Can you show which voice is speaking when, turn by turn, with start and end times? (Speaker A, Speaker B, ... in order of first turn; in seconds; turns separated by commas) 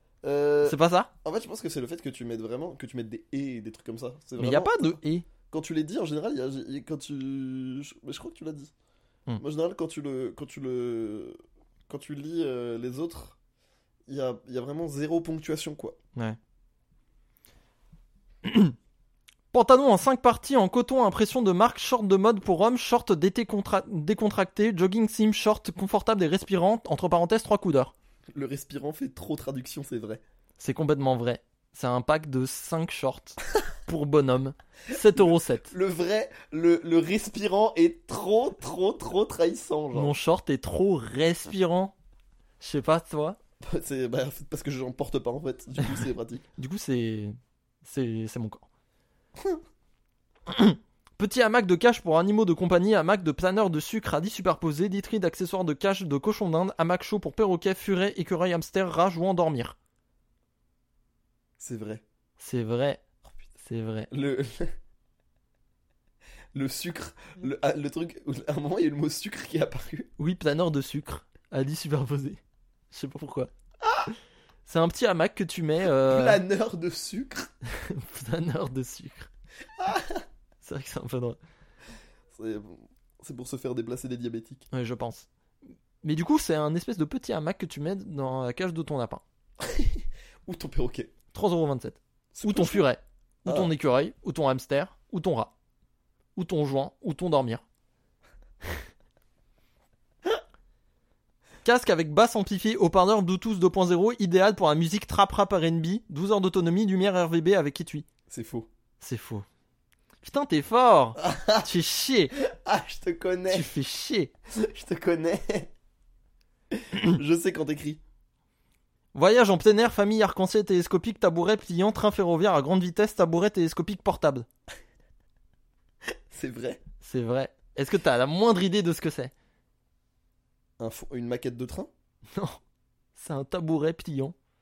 Speaker A: 0.2-4.9, Speaker B: 0.6-1.1, Speaker B: 4.4-5.3, Speaker A: 5.5-8.7, Speaker A: 9.4-11.4, Speaker A: 11.9-13.4, Speaker A: 14.1-16.0, Speaker B: 18.4-18.8, Speaker B: 19.5-27.9, Speaker A: 28.4-30.2, Speaker B: 30.6-35.7, Speaker A: 35.7-40.1, Speaker B: 39.9-41.9, Speaker B: 42.6-43.4, Speaker A: 43.6-46.4, Speaker B: 45.8-48.7, Speaker B: 50.5-59.8, Speaker A: 61.6-62.0, Speaker B: 62.4-63.0, Speaker B: 63.6-64.1, Speaker A: 64.1-64.7, Speaker A: 66.5-70.1, Speaker B: 70.2-72.4, Speaker B: 72.9-73.5, Speaker B: 74.7-76.4, Speaker A: 76.1-77.5, Speaker B: 77.7-79.3, Speaker A: 79.8-80.2, Speaker B: 80.6-81.4, Speaker A: 82.3-84.7, Speaker B: 84.7-85.3, Speaker B: 86.0-89.2, Speaker A: 89.6-91.1, Speaker B: 91.3-95.5, Speaker A: 92.3-92.9, Speaker A: 93.5-93.7, Speaker B: 96.4-97.6, Speaker B: 101.6-108.1, Speaker A: 108.3-108.7, Speaker B: 109.0-109.5, Speaker B: 110.2-112.3, Speaker A: 111.2-111.7, Speaker A: 112.6-113.7, Speaker B: 113.5-114.3, Speaker A: 114.5-115.7, Speaker A: 117.0-118.0, Speaker B: 119.1-124.5, Speaker A: 126.3-126.8, Speaker B: 127.0-129.3, Speaker A: 130.8-131.9, Speaker B: 132.3-132.6, Speaker B: 133.2-134.3